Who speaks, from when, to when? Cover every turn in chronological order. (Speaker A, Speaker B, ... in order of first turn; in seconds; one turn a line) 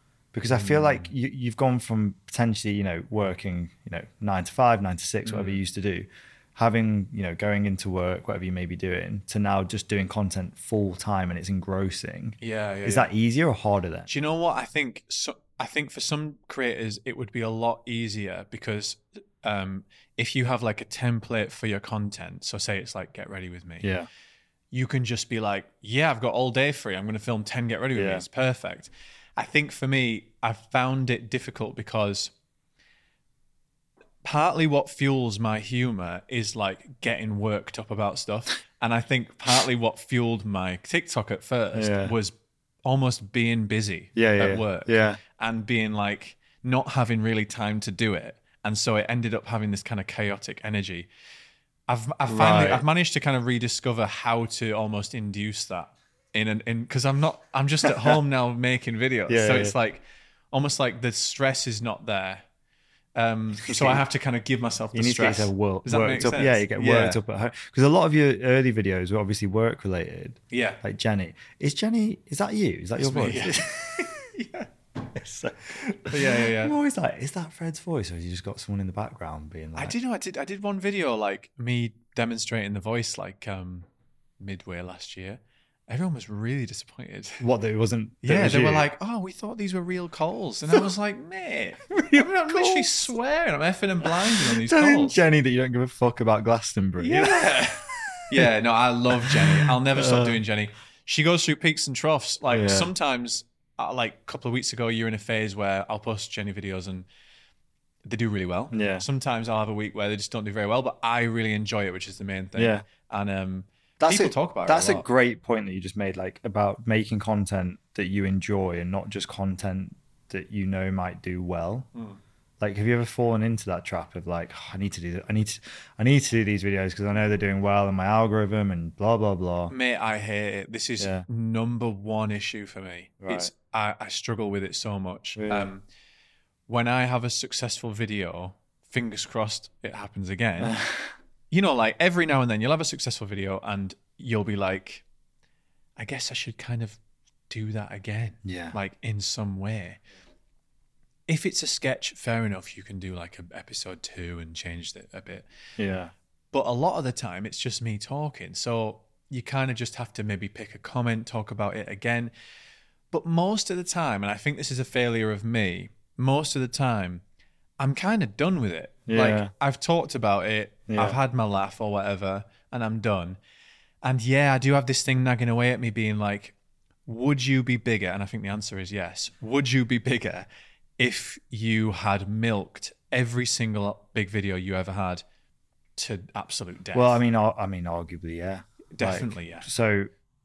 Speaker A: 0.3-14.1
Speaker B: 0.5-1.1
Speaker B: 5.2-5.6
Speaker B: 12.4-13.1
Speaker B: 14.1-23.9
Speaker A: 23.8-24.1
Speaker B: 24.7-32.3
Speaker A: 27.9-28.2
Speaker B: 34.2-51.1
Speaker A: 41.8-42.1
Speaker A: 44.1-45.2
Speaker B: 51.9-62.4
Speaker A: 52.3-52.8
Speaker A: 57.9-58.2
Speaker A: 59.3-59.8
Speaker B: 63.2-67.2
Speaker A: 63.6-64.0
Speaker A: 64.9-74.3
Speaker B: 70.5-70.8
Speaker B: 73.0-74.7
Speaker A: 75.1-80.0
Speaker B: 76.0-76.8
Speaker B: 79.8-83.9
Speaker B: 84.4-87.4
Speaker A: 87.4-88.9
Speaker B: 88.2-95.2
Speaker A: 91.9-93.1
Speaker A: 94.0-98.5
Speaker B: 97.0-107.1
Speaker A: 99.2-100.4
Speaker A: 102.5-102.9
Speaker B: 108.0-115.1
Speaker A: 108.7-109.0
Speaker A: 112.6-112.8
Speaker A: 114.0-121.9
Speaker A: 122.6-129.7
Speaker B: 129.7-135.8
Speaker A: 131.0-131.2
Speaker A: 133.2-133.5
Speaker A: 135.4-135.7
Speaker B: 136.7-140.8
Speaker A: 140.6-141.1
Speaker B: 141.5-145.0
Speaker B: 146.0-147.0
Speaker B: 147.5-150.0
Speaker A: 148.4-148.8
Speaker B: 151.3-155.5
Speaker A: 155.8-156.1
Speaker B: 156.5-162.3
Speaker B: 163.1-167.2
Speaker B: 167.8-173.4
Speaker A: 169.1-169.5
Speaker A: 170.9-171.2
Speaker B: 174.0-176.6
Speaker B: 177.1-180.5
Speaker B: 181.0-185.2
Speaker B: 186.0-187.2
Speaker A: 186.9-190.1
Speaker B: 188.9-189.7